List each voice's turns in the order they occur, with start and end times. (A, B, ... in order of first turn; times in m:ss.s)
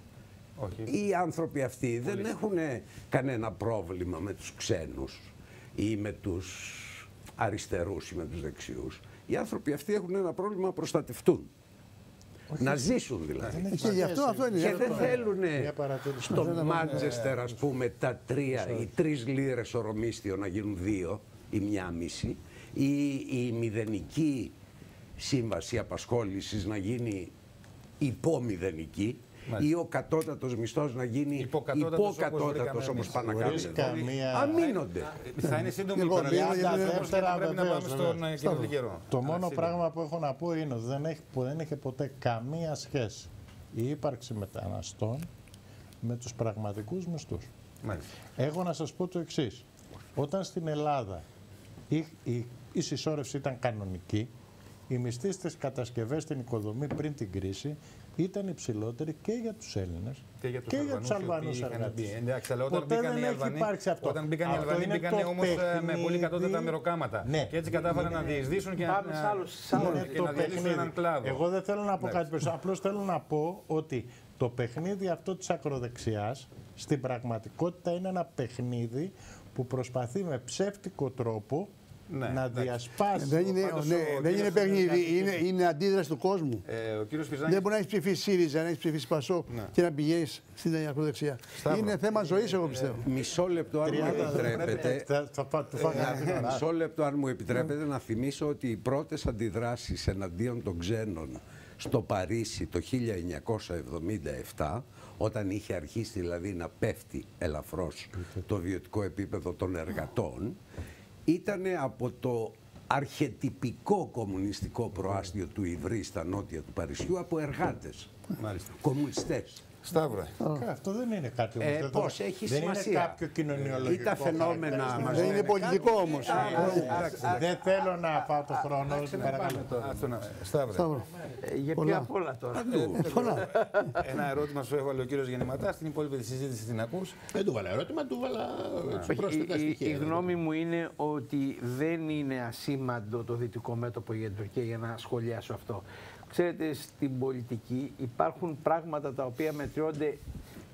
0:00.6-0:00.9 A
0:00.8-0:11.5 B
0:12.5-0:17.2 C
0:12.6-0:24.5 B
0:13.7-0:15.2 D
0:16.3-0:17.1 D
0:25.2-0:27.3 B
0:28.0-0:35.2 B
0:31.4-0:39.8 A
0:33.2-0:34.7 C
0:35.4-0:37.3 D
0:36.1-0:38.2 C
0:38.3-0:38.8 D
0:39.1-0:45.3 C
0:46.0-0:47.5 C
0:48.4-0:51.2 C
0:51.9-0:54.3 C
0:54.9-1:02.2 C
1:00.4-1:11.4 A
1:02.7-1:08.1 C
1:08.8-1:10.6 E
1:09.7-1:21.7 C
1:12.0-1:12.3 A
1:22.1-1:25.4 A
1:22.2-1:23.5 C
1:23.2-1:26.6 D
1:26.6-1:27.7 A
1:27.5-1:33.1 D
1:31.6-1:33.2 A
1:33.0-1:35.1 B
1:33.8-1:36.6 C
1:34.0-1:34.9 A
1:35.8-1:36.6 A
1:35.8-1:50.6 B
1:51.3-1:58.1 B
1:58.4-1:58.8 A
1:58.8-1:59.6 B
1:59.8-2:00.4 A
2:00.4-2:00.7 D
2:00.5-2:05.5 C
2:01.6-2:03.2 B
2:03.6-2:07.6 A
2:03.8-2:06.2 B
2:05.0-2:07.1 D
2:05.4-2:09.6 E
2:06.4-2:10.1 C
2:09.1-2:11.0 A
2:10.7-2:11.1 D
2:11.4-2:14.0 E
2:11.8-2:12.1 D
2:12.6-2:13.3 B
2:12.9-2:13.5 D
2:13.9-2:17.2 A
2:17.3-2:20.4 F
2:19.1-2:30.2 E